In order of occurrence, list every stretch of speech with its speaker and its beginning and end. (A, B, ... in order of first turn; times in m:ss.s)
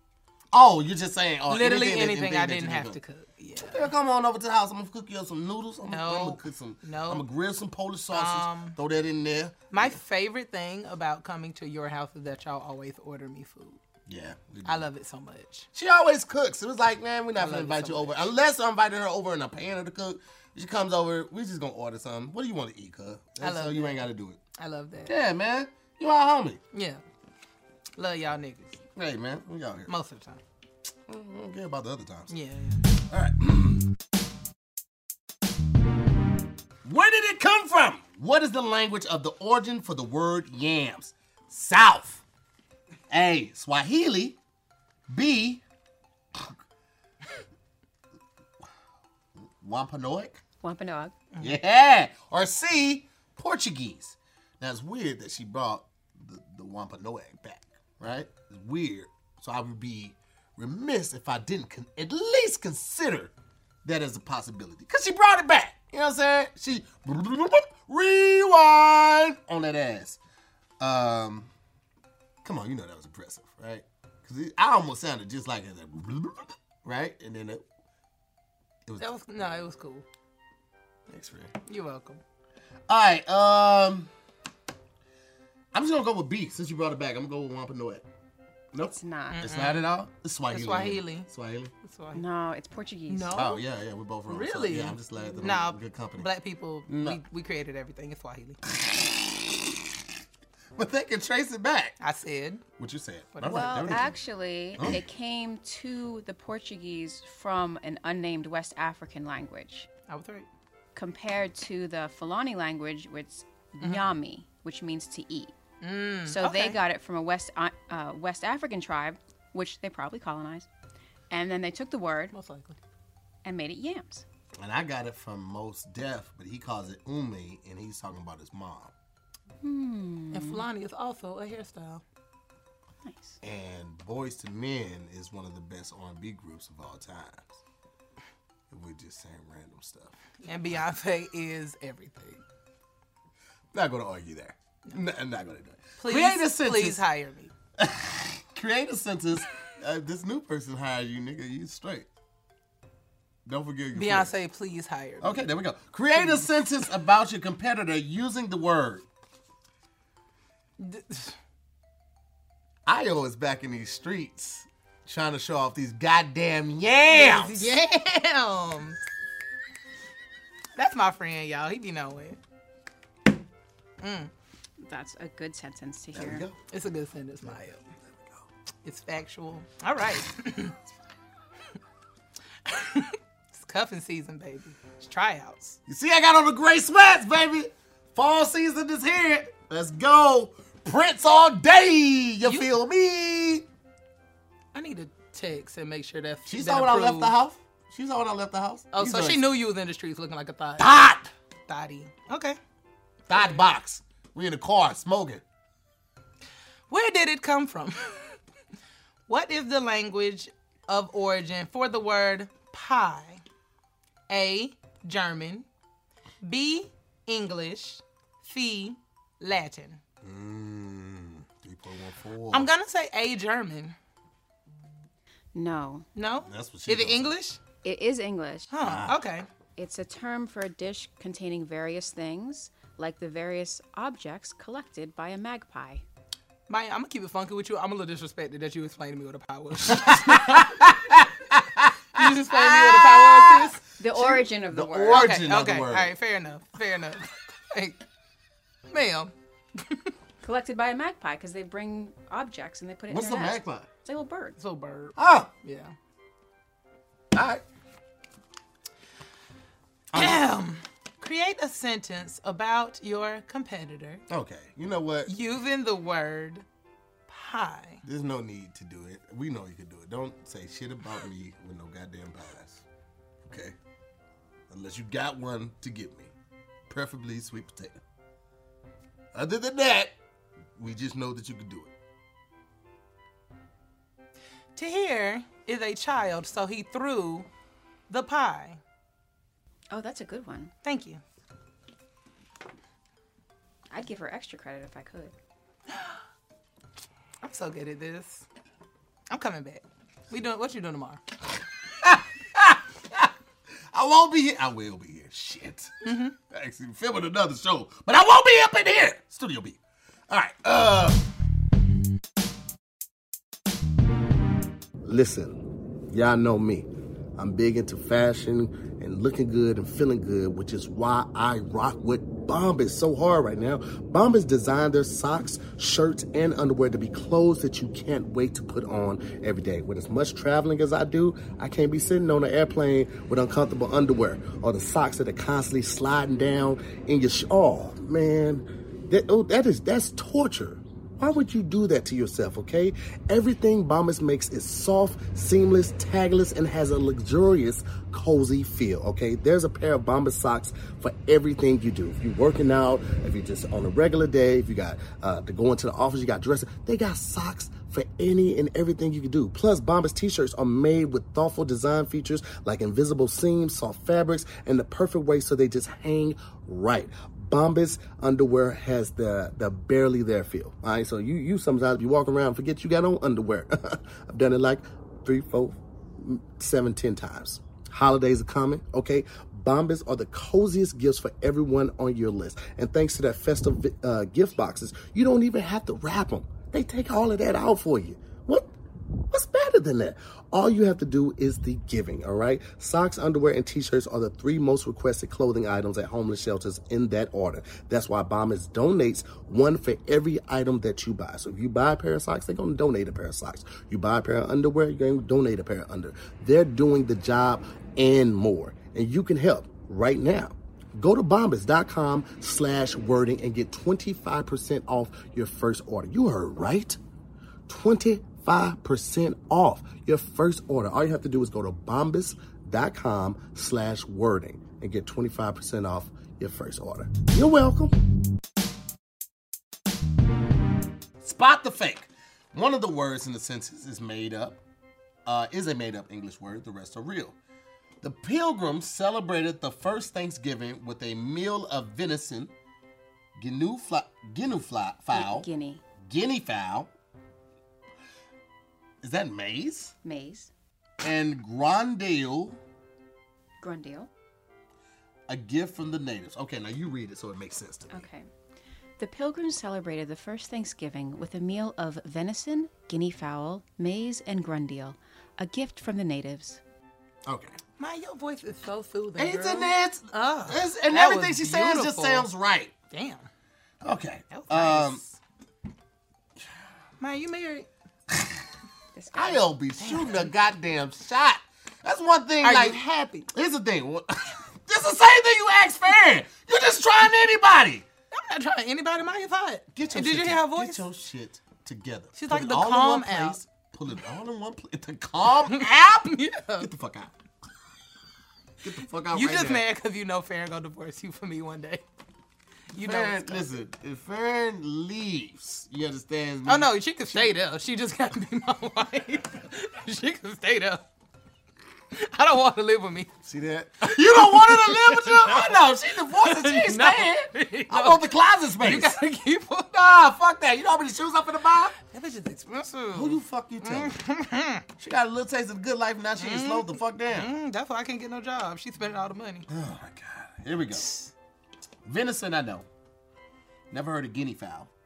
0:00.5-0:03.0 A
0:01.5-0:03.9 B
0:03.6-0:10.0 A
0:05.9-0:07.2 B
0:08.1-0:08.8 B
0:09.7-0:13.8 B
0:14.1-0:14.9 A
0:14.6-0:15.7 B
0:15.7-0:24.4 A
0:17.4-0:18.3 B
0:23.4-0:25.1 B
0:25.0-0:26.6 A
0:26.7-0:27.0 B
0:28.0-0:28.8 B
0:29.0-0:29.9 A
0:29.9-0:30.4 B
0:31.1-0:32.3 A
0:32.3-0:32.8 B
0:33.0-0:33.8 A
0:36.8-0:42.2 A
0:43.1-0:44.4 A
0:45.1-0:45.6 A
0:49.6-0:50.4 A
0:50.6-0:51.2 C
0:51.4-1:03.3 A
1:03.8-1:10.2 A
1:10.8-1:11.5 A
1:12.4-1:17.6 A
1:19.0-1:20.0 B
1:21.1-1:21.5 A
1:21.6-1:22.2 B
1:22.9-1:24.1 A
1:25.7-1:28.0 A
1:28.7-1:31.7 A
1:28.9-1:29.4 C
1:29.3-1:29.9 B
1:30.5-1:31.3 B
1:31.8-1:32.2 B
1:32.1-1:33.4 C
1:33.1-1:33.6 B
1:33.3-1:36.3 A
1:34.3-1:38.6 B
1:36.9-1:37.2 A
1:38.7-1:39.6 A
1:40.8-1:42.0 A
1:42.0-1:42.6 B
1:42.8-1:44.2 A
1:43.4-1:44.1 B
1:43.4-1:49.9 C
1:50.1-1:50.5 B
1:50.9-1:55.5 C
1:53.8-1:54.1 B
1:55.8-1:56.8 B
1:56.2-2:00.7 C
2:01.3-2:02.3 C
2:02.3-2:02.8 B
2:03.4-2:04.2 C
2:04.6-2:08.9 A
2:09.6-2:10.7 C
2:10.3-2:12.0 B
2:13.0-2:13.4 C
2:13.4-2:17.6 A
2:18.7-2:20.1 A
2:20.4-2:22.4 B
2:23.7-2:27.0 A
2:26.0-2:27.5 B
2:27.8-2:32.1 A
2:33.4-2:34.3 A
2:33.9-2:35.4 B
2:35.2-2:39.0 A
2:36.2-2:36.5 B
2:40.8-2:41.4 B
2:42.8-2:47.7 A
2:47.1-2:49.0 B
2:50.8-2:52.4 B
2:54.0-2:54.3 B
2:54.8-2:56.4 C
2:56.1-2:56.6 A
2:56.7-2:57.8 B
2:58.0-2:58.4 A
2:58.8-3:00.8 B
3:02.6-3:05.8 B
3:05.9-3:13.6 A
3:12.4-3:12.7 B
3:14.7-3:17.3 B
3:16.4-3:19.4 A
3:18.9-3:20.9 B
3:20.8-3:21.3 A
3:21.7-3:22.6 B
3:23.3-3:25.4 A
3:23.3-3:23.6 B
3:26.9-3:28.4 B
3:29.3-3:33.4 B
3:34.3-3:35.6 B
3:36.4-3:40.0 B
3:40.2-3:42.7 A
3:42.5-3:43.9 B
3:45.5-3:46.1 C
3:46.1-3:47.6 B
3:46.4-3:47.3 A
3:47.8-3:48.7 C
3:48.7-3:49.5 B
3:48.8-3:49.2 A
3:49.8-3:56.0 C
3:56.7-4:00.9 B
3:59.9-4:06.1 A
4:02.1-4:03.8 B
4:04.0-4:05.4 C
4:05.1-4:08.0 B
4:08.9-4:10.1 B
4:10.4-4:14.6 C
4:13.1-4:13.9 A
4:14.6-4:15.9 B
4:15.2-4:15.5 A
4:17.3-4:17.6 A
4:20.1-4:20.4 A
4:20.1-4:24.2 B
4:24.3-4:25.3 A
4:25.3-4:26.6 B
4:27.3-4:28.0 B
4:28.0-4:32.8 A
4:33.4-4:33.8 A
4:34.7-4:36.3 A
4:36.9-4:38.0 A
4:39.3-4:40.1 A
4:40.8-4:41.9 A
4:44.8-4:47.5 B
4:48.1-4:48.8 B
4:49.9-4:50.7 C
4:50.8-4:51.2 B
4:53.9-4:55.3 C
4:57.4-4:58.4 B
4:59.3-5:01.2 B
5:02.0-5:03.3 A
5:03.9-5:11.2 A
5:06.0-5:06.3 B
5:15.0-6:28.7 A
6:29.3-6:57.0 A
6:57.7-7:08.0 A
7:11.2-7:14.6 A
7:15.2-7:17.4 A
7:18.0-7:22.5 A
7:23.4-7:25.5 A
7:25.1-7:25.8 C
7:26.0-7:26.9 A
7:29.0-7:29.9 A
7:30.0-7:30.5 C
7:31.0-7:32.6 A
7:33.6-7:34.1 C
7:35.3-7:38.0 A
7:37.9-7:38.3 C
7:39.0-7:46.6 C
7:47.3-7:47.6 A
7:47.8-7:52.3 B
7:49.2-7:52.7 A
7:52.9-7:53.3 B
7:53.8-7:55.0 A
7:54.3-7:55.2 B
7:57.0-7:57.7 B
7:58.1-7:58.4 A
7:58.9-7:59.5 C
7:59.1-8:07.8 A
7:59.8-8:00.3 B
8:02.4-8:03.3 B
8:08.1-8:10.8 B
8:09.7-8:17.1 A
8:12.2-8:13.4 B
8:15.4-8:16.7 B
8:18.6-8:19.6 A
8:19.1-8:21.8 B
8:22.7-8:23.5 B
8:22.8-8:27.3 A
8:26.4-8:30.8 B
8:31.9-8:33.1 B
8:33.2-8:39.0 A
8:33.8-8:38.0 B
8:38.6-8:39.7 B
8:39.7-8:41.8 A
8:41.8-8:44.6 B
8:42.9-8:44.0 A
8:44.8-8:47.3 A
8:46.2-8:49.5 B
8:49.5-8:50.9 A
8:50.7-8:51.0 B
8:51.8-8:52.7 A
8:53.7-8:54.7 A